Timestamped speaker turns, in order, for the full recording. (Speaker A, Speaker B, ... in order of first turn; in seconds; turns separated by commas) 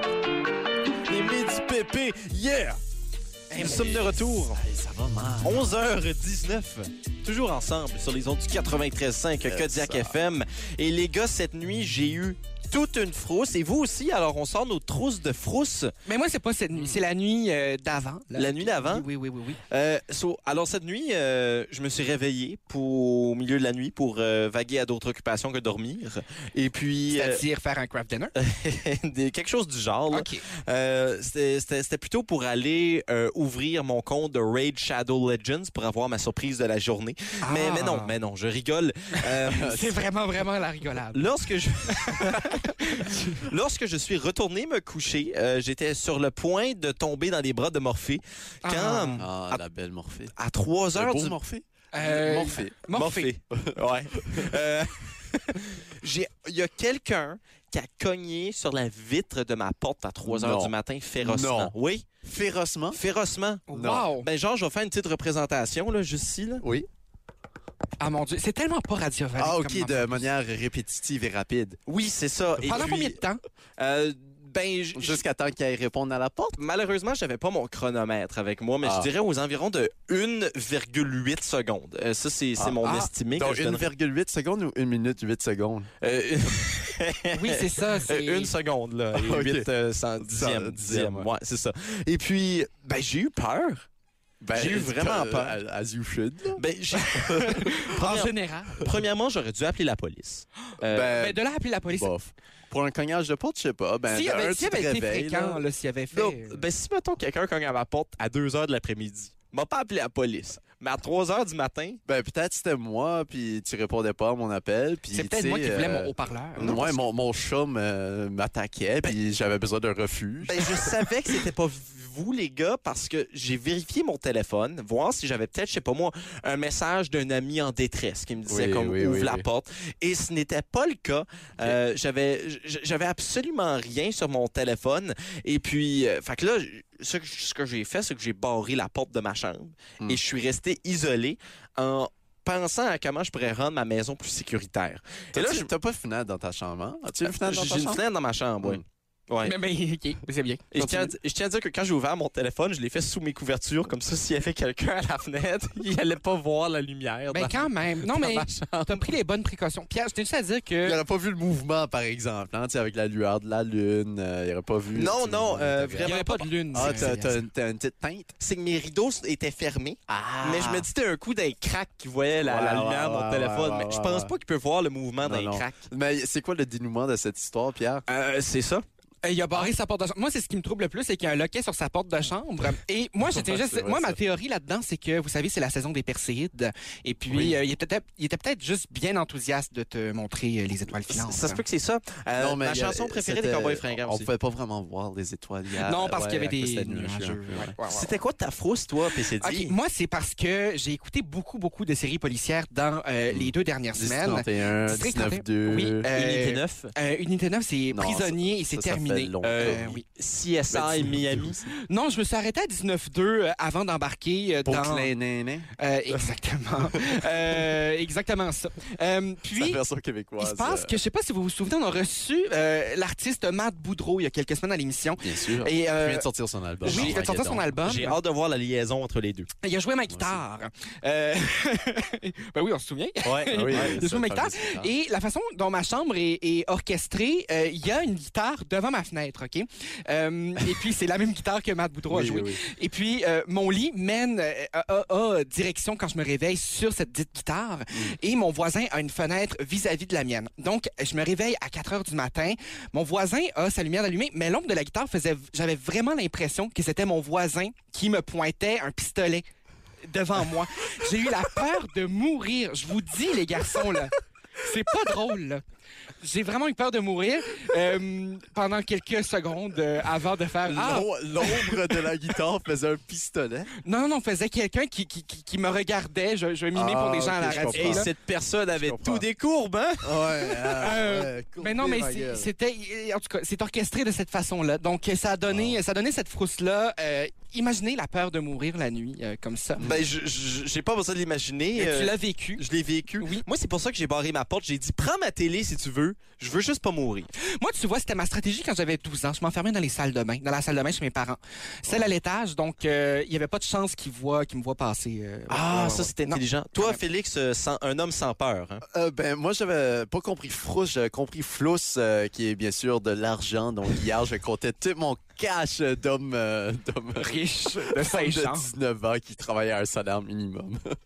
Speaker A: 1.1-2.8, Speaker B: 3.5-5.8, Speaker A: 3.5-4.6, Speaker A: 5.4-15.9, Speaker B: 9.4-10.2, Speaker C: 16.1-19.6, Speaker B: 16.7-17.0, Speaker A: 18.4-19.1, Speaker A: 19.7-27.4, Speaker C: 27.1-28.3, Speaker A: 28.4-39.9, Speaker C: 30.1-30.4, Speaker C: 37.4-38.1, Speaker C: 39.2-41.3, Speaker A: 41.1-49.3, Speaker C: 41.9-43.4, Speaker C: 48.6-49.3, Speaker B: 49.2-50.4, Speaker A: 50.4-51.4, Speaker B: 51.0-52.8, Speaker C: 51.9-53.3, Speaker A: 52.9-62.1, Speaker B: 53.5-54.5, Speaker B: 60.2-63.0, Speaker A: 62.9-66.6, Speaker C: 63.7-64.3, Speaker B: 63.7-64.1, Speaker B: 66.6-66.9, Speaker C: 68.0-70.3, Speaker B: 69.4-71.8, Speaker A: 71.9-73.2, Speaker B: 72.6-73.0, Speaker C: 72.7-73.4, Speaker A: 73.8-75.2, Speaker B: 74.9-76.6, Speaker A: 76.6-83.9, Speaker B: 78.8-79.1, Speaker B: 82.6-85.9, Speaker C: 82.8-83.1, Speaker A: 86.0-93.9, Speaker C: 87.3-88.5, Speaker B: 89.1-91.3, Speaker B: 94.4-96.6, Speaker A: 94.5-95.6, Speaker A: 96.6-101.2, Speaker C: 97.2-98.9, Speaker B: 100.8-105.6, Speaker C: 101.2-102.1, Speaker C: 104.1-106.6, Speaker A: 106.1-112.0, Speaker B: 112.1-121.0, Speaker C: 115.1-117.0, Speaker A: 120.5-145.7, Speaker B: 128.5-129.5, Speaker B: 145.3-148.0, Speaker A: 147.2-149.6, Speaker C: 149.4-150.7, Speaker A: 150.7-159.0, Speaker B: 150.8-151.1, Speaker C: 157.3-161.0, Speaker B: 160.8-166.2, Speaker A: 164.9-167.1, Speaker C: 166.0-167.4, Speaker B: 166.7-168.3, Speaker A: 168.4-175.8, Speaker B: 170.1-170.9, Speaker B: 172.4-174.3, Speaker B: 175.2-178.0, Speaker A: 178.1-178.8, Speaker C: 179.2-191.6, Speaker B: 183.2-184.2, Speaker B: 187.3-187.6, Speaker A: 191.1-194.3, Speaker B: 192.4-197.7, Speaker C: 195.8-198.1, Speaker A: 197.8-199.7, Speaker C: 199.4-210.0, Speaker B: 203.3-206.1, Speaker A: 206.1-206.9, Speaker B: 207.9-210.0, Speaker A: 209.4-211.6, Speaker B: 210.7-211.7, Speaker C: 211.7-215.1, Speaker B: 214.7-215.7, Speaker C: 215.8-219.8, Speaker B: 219.6-221.0, Speaker C: 220.4-226.3, Speaker B: 225.2-227.7, Speaker C: 226.8-228.2, Speaker A: 226.9-227.2, Speaker A: 227.8-229.5, Speaker C: 229.6-259.4, Speaker B: 230.1-230.4, Speaker A: 233.2-234.0, Speaker B: 233.5-234.9, Speaker B: 242.1-242.6, Speaker C: 260.0-265.6, Speaker C: 266.2-272.0, Speaker B: 270.6-273.7, Speaker C: 273.8-278.1, Speaker B: 276.7-279.2, Speaker A: 277.5-280.1, Speaker B: 280.0-282.5, Speaker C: 280.6-289.9, Speaker B: 285.5-285.8, Speaker A: 289.8-297.3, Speaker C: 291.8-292.6, Speaker C: 293.2-293.5, Speaker C: 297.4-307.0, Speaker A: 305.5-308.8, Speaker B: 308.9-321.0, Speaker C: 317.2-318.7